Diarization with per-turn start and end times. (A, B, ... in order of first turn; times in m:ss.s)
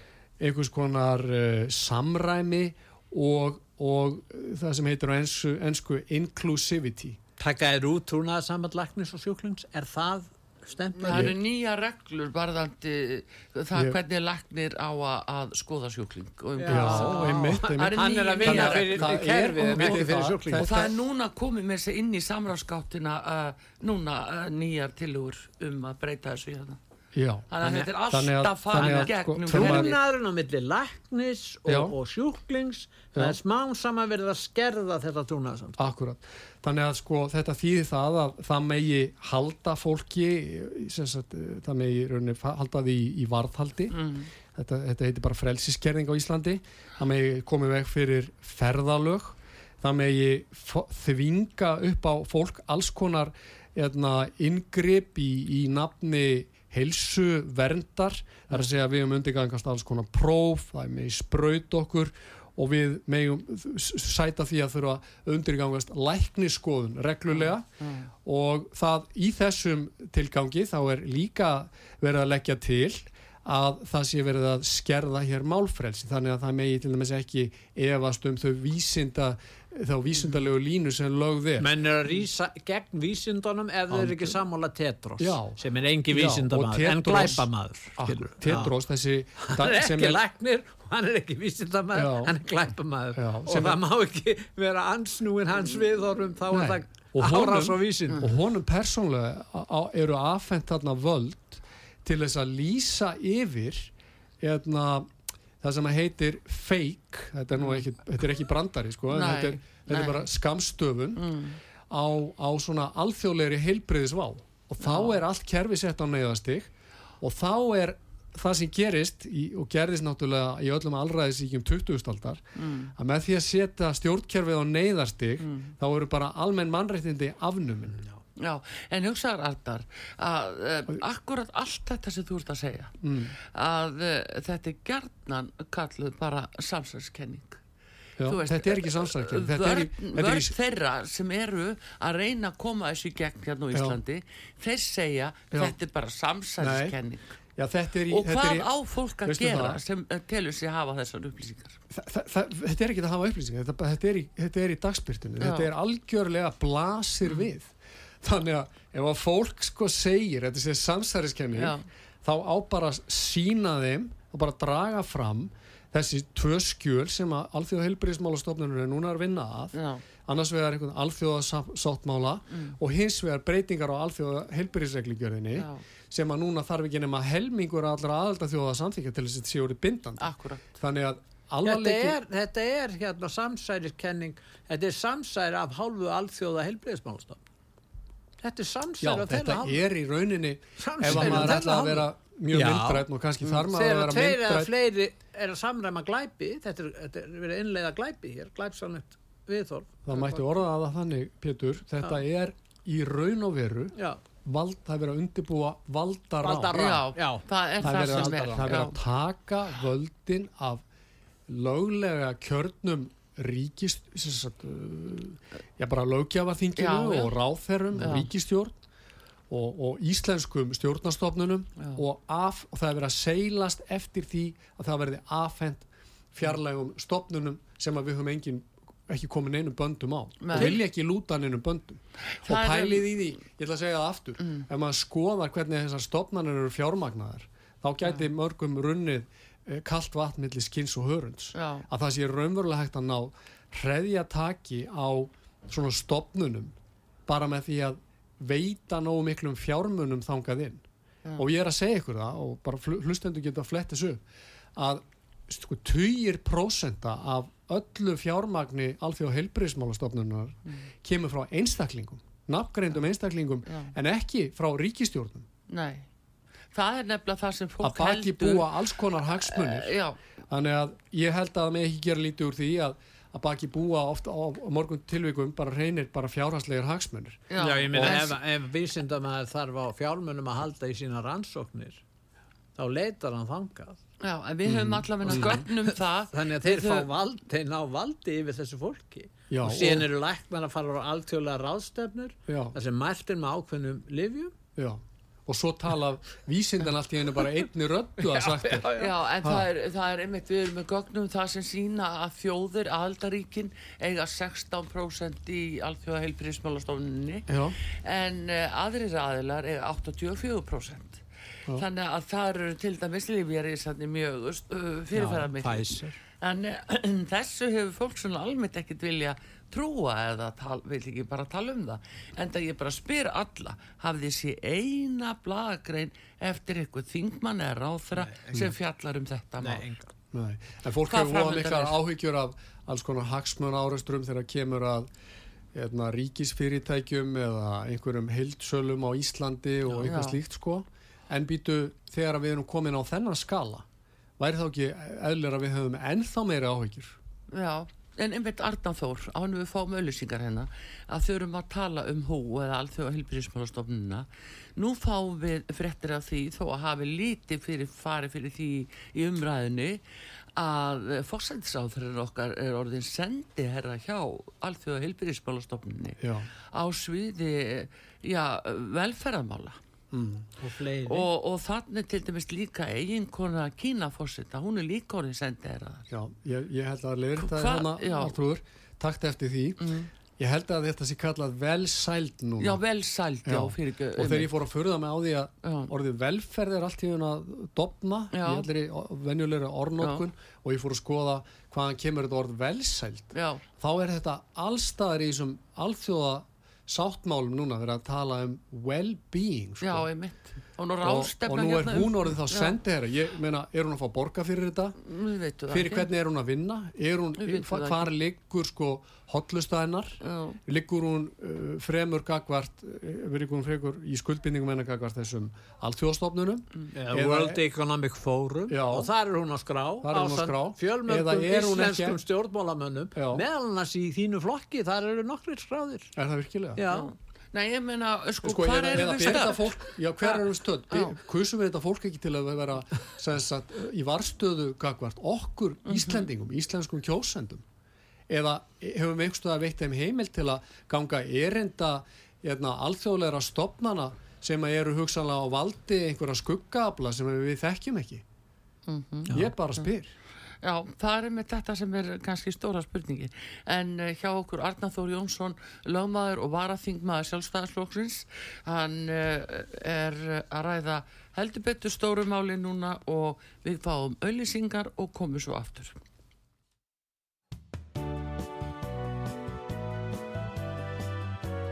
0:00.4-0:07.2 A
0:07.4-0:11.3 B
0:11.0-0:26.8 C
0:11.1-0:11.4 A
0:13.7-0:14.0 A
0:16.6-0:20.7 B
0:16.7-0:20.9 A
0:27.1-0:27.5 A
0:27.5-0:30.0 C
0:27.6-0:27.9 B
0:28.1-0:29.9 A
0:28.7-0:35.8 B
0:31.6-0:31.9 A
0:35.8-0:44.0 A
0:43.9-0:44.3 C
0:44.5-1:07.6 A
1:07.3-1:08.1 C
1:08.2-1:21.7 A
1:21.6-1:28.7 B
1:23.9-1:24.4 A
1:25.2-1:25.6 A
1:26.1-1:30.2 A
1:29.4-1:38.3 B
1:31.9-1:32.3 A
1:33.1-1:33.8 A
1:36.5-1:45.1 A
1:45.6-1:51.2 A
1:47.6-1:47.8 C
1:49.1-1:50.3 C
1:51.2-1:51.6 C
1:51.9-2:02.4 A
1:54.8-1:55.2 C
2:02.6-2:02.9 C
2:03.0-2:08.0 A
2:05.4-2:05.7 C
2:08.4-2:17.6 C
2:13.0-2:13.3 A
2:18.2-2:20.5 A
2:18.2-2:27.4 C
2:23.7-2:24.0 A
2:26.6-2:27.0 A
2:27.6-2:28.7 A
2:28.1-2:31.8 C
2:29.2-2:29.8 A
2:31.9-3:02.2 A
2:35.4-2:35.7 C
2:41.5-2:41.9 C
2:49.7-2:50.0 C
2:55.6-2:55.8 C
3:00.2-3:00.6 C
3:01.6-3:07.4 B
3:08.4-3:09.8 B
3:09.0-3:14.7 A
3:10.8-3:20.4 B
3:20.0-3:27.0 A
3:24.0-3:24.2 B
3:26.4-3:28.8 B
3:26.7-3:29.0 C
3:27.8-3:30.8 A
3:31.5-3:38.8 A
3:36.8-3:37.3 C
3:38.0-3:38.3 C
3:39.5-4:06.7 A
3:50.4-3:50.8 C
3:52.3-3:53.2 C
4:01.5-4:01.8 C
4:07.3-4:10.8 A
4:11.4-4:14.2 A
4:14.8-4:25.5 A
4:23.7-4:23.9 C
4:25.7-4:26.1 C
4:26.7-4:28.7 C
4:27.8-4:29.9 A
4:29.3-4:30.2 C
4:30.5-4:38.2 A
4:37.5-4:38.4 C
4:37.6-4:42.0 B
4:42.8-4:44.0 B
4:44.2-4:47.1 C
4:44.6-4:45.6 A
4:45.3-4:54.5 B
4:49.5-4:50.1 A
4:52.5-4:52.8 A
4:54.8-4:59.6 A
4:58.4-4:59.1 B
4:58.9-5:29.8 C
5:07.5-5:07.8 A
5:15.1-5:16.2 B
5:28.1-5:28.7 B
5:29.6-5:30.1 B
5:30.3-5:35.1 A
5:31.0-5:32.0 C
5:35.7-5:43.8 A
5:40.0-5:40.4 C
5:44.4-5:47.2 A
5:47.5-6:00.0 C
6:00.6-6:06.2 C
6:06.2-6:06.5 A
6:06.7-6:09.8 C
6:10.1-6:10.5 A
6:10.6-6:11.3 B
6:11.0-6:16.1 C
6:16.1-6:22.8 A
6:17.4-6:18.3 C
6:19.8-6:20.1 C
6:22.6-6:24.5 C
6:23.4-6:40.1 A
6:25.6-6:25.9 C
6:28.3-6:28.7 C
6:33.3-6:33.6 C
6:39.8-6:42.8 C
6:41.0-6:45.0 A
6:45.0-6:46.1 C
6:45.7-6:57.6 A
6:47.4-6:48.1 C
6:50.2-6:50.6 C
6:56.9-7:06.2 B
6:58.7-6:59.1 A
7:00.0-7:02.2 A
7:03.1-7:03.4 A
7:06.2-7:06.8 A
7:06.7-7:07.1 B
7:06.9-7:11.1 C
7:08.4-7:17.6 A
7:15.9-7:16.3 C
7:18.3-7:28.2 A
7:28.9-7:29.8 C
7:29.3-7:30.1 A
7:30.6-7:46.0 C